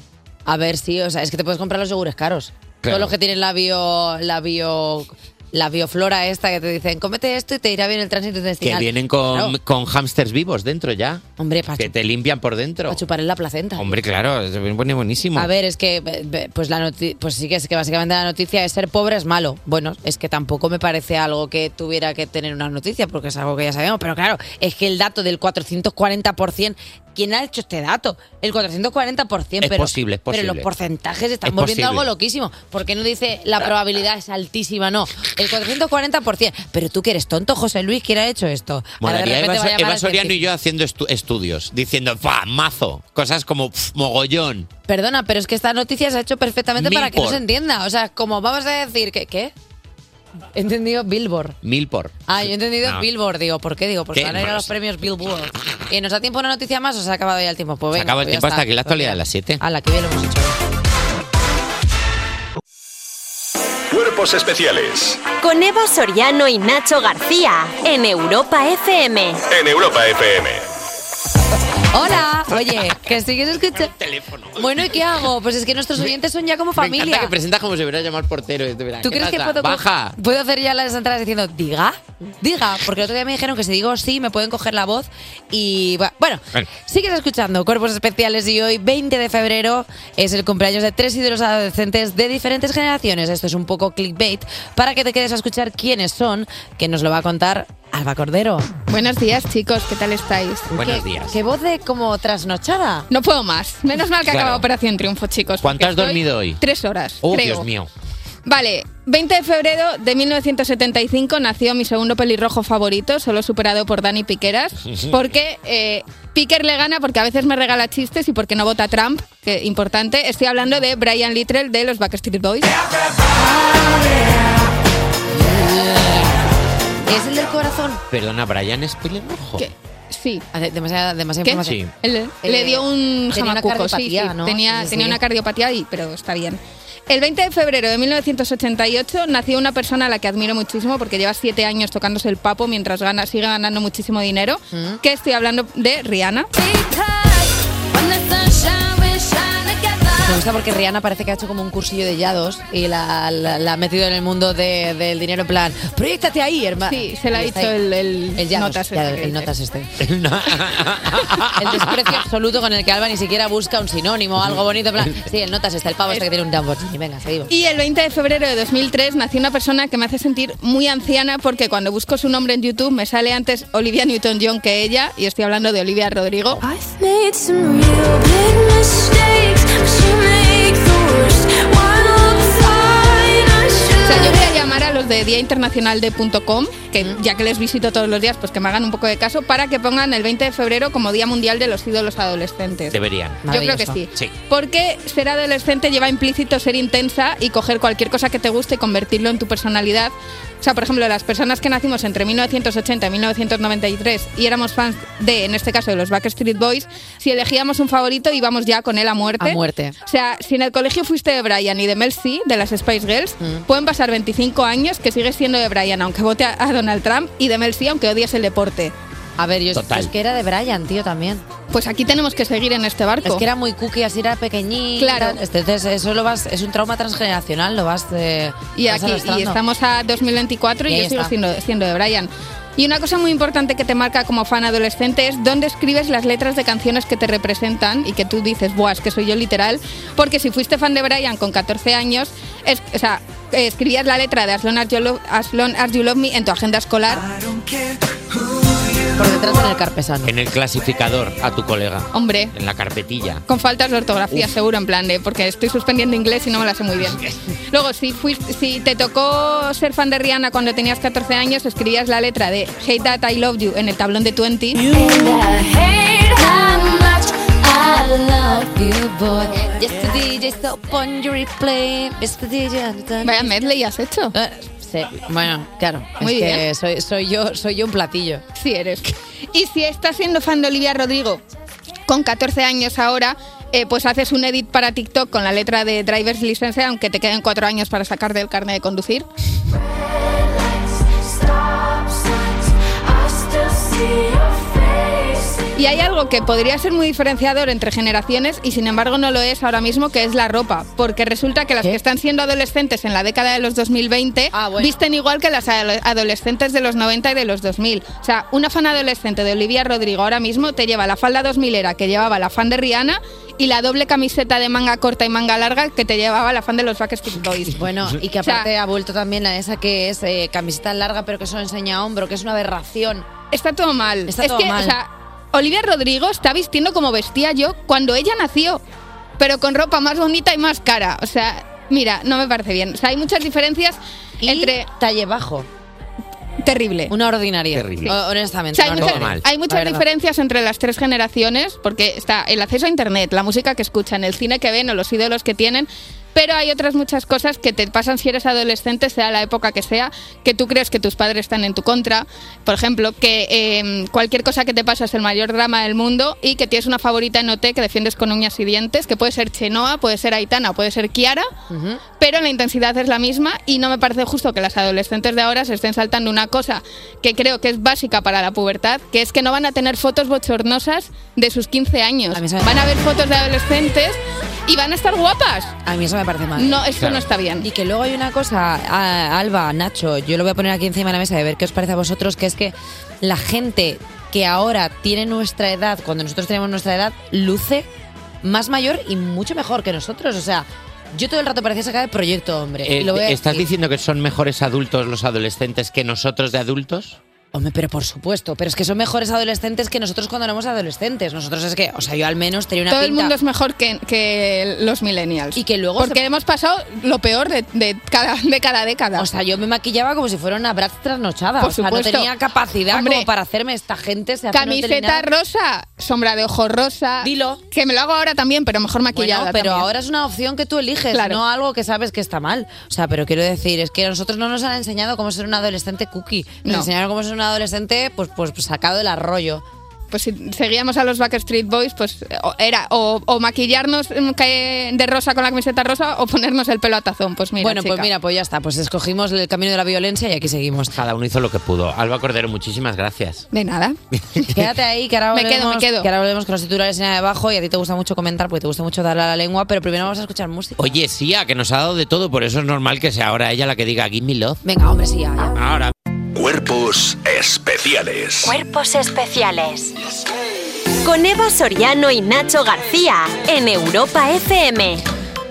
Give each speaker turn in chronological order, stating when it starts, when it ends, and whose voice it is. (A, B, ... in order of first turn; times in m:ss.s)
0:00.5-0:09.6 A
0:02.8-0:03.2 B
0:08.6-0:11.2 B
0:11.4-0:12.0 A
0:11.8-0:13.0 B
0:12.9-0:14.0 A
0:13.8-0:15.5 B
0:15.4-0:40.4 A
0:29.6-0:30.7 B
0:31.4-0:32.1 B
0:39.0-0:44.7 B
0:44.9-0:49.5 A
0:46.8-0:47.4 B
0:50.6-0:51.6 A
0:51.6-0:53.1 B
0:52.3-1:00.6 A
0:54.1-0:54.7 B
0:57.9-0:59.6 B
1:03.9-1:05.2 C
1:05.4-1:09.4 D
1:09.5-1:10.6 C
1:11.9-1:13.9 A
1:13.7-1:15.0 B
1:14.6-1:17.3 A
1:16.8-1:20.2 B
1:19.0-1:38.7 A
1:38.9-1:40.7 E
1:40.7-1:43.1 A
1:40.7-1:41.4 B
1:43.1-1:47.7 E
1:44.2-1:44.6 B
1:45.6-1:46.6 B
1:47.2-1:47.9 B
1:48.5-2:02.7 E
1:54.9-1:55.2 B
2:03.4-2:04.4 A
2:05.3-2:06.4 A
2:07.1-2:08.0 A
2:08.1-2:09.7 B
2:09.6-2:10.4 E
2:10.5-2:11.8 A
2:11.4-2:26.5 E
2:11.6-2:11.9 B
2:12.4-2:15.2 A
2:24.7-2:25.0 A
2:30.2-2:37.7 A
2:36.9-2:39.5 E
2:38.4-2:39.9 A
2:40.0-2:42.2 B
2:41.5-2:47.5 A
2:47.5-2:56.6 E
2:56.8-3:04.2 F
3:04.0-3:13.0 E
3:12.9-3:13.4 B
3:13.5-3:14.0 A
3:13.5-3:38.9 E
3:29.4-3:30.0 A
3:39.4-3:41.4 A
3:39.7-3:40.1 B
3:41.7-3:43.4 E
3:43.2-3:49.6 A
3:45.0-3:45.4 E
3:48.8-4:07.3 E
3:50.9-3:51.3 A
4:09.2-4:10.3 A
4:10.2-4:13.4 B
4:12.1-4:12.5 E
4:13.5-4:24.8 E
4:24.9-4:33.8 A
4:33.2-4:34.3 E
4:34.3-4:38.4 A
4:36.2-4:36.6 E
4:38.6-4:41.4 E
4:42.1-4:49.3 E
4:55.8-5:17.8 E
5:04.5-5:04.9 A
5:17.7-5:23.3 A
5:18.4-5:18.7 E
5:23.5-5:28.8 E
5:24.3-5:25.0 A
5:29.4-5:34.9 E
5:34.4-5:35.7 A
5:36.6-5:37.1 E
5:37.1-5:40.0 A
5:37.7-5:38.2 B
5:38.7-6:01.5 E
5:39.0-5:39.4 B
6:01.7-6:02.0 A
6:02.2-6:15.7 E
6:12.3-6:12.8 A
6:15.9-6:16.8 A
6:16.6-6:17.7 E
6:17.0-6:17.3 B
6:17.6-6:27.9 A
6:28.4-6:33.7 A
6:32.8-6:37.2 B
6:37.5-6:43.3 A
6:42.9-6:49.3 E
6:45.6-6:46.2 A
6:49.2-6:55.3 A
6:51.6-6:52.3 E
6:52.9-6:53.3 E
6:54.5-6:59.9 E
6:57.2-6:57.6 A
6:59.1-7:09.6 A
7:01.1-7:01.4 E
7:10.1-7:18.1 E
7:17.6-7:21.0 A
7:20.9-7:23.5 B
7:23.5-7:24.0 E
7:24.2-7:24.6 B
7:24.5-7:31.0 A
7:25.3-7:26.1 E
7:30.8-7:34.6 B
7:34.6-7:35.6 A
7:35.6-7:35.9 B
7:36.4-7:38.6 C
7:38.4-7:39.9 D
7:41.0-7:45.0 D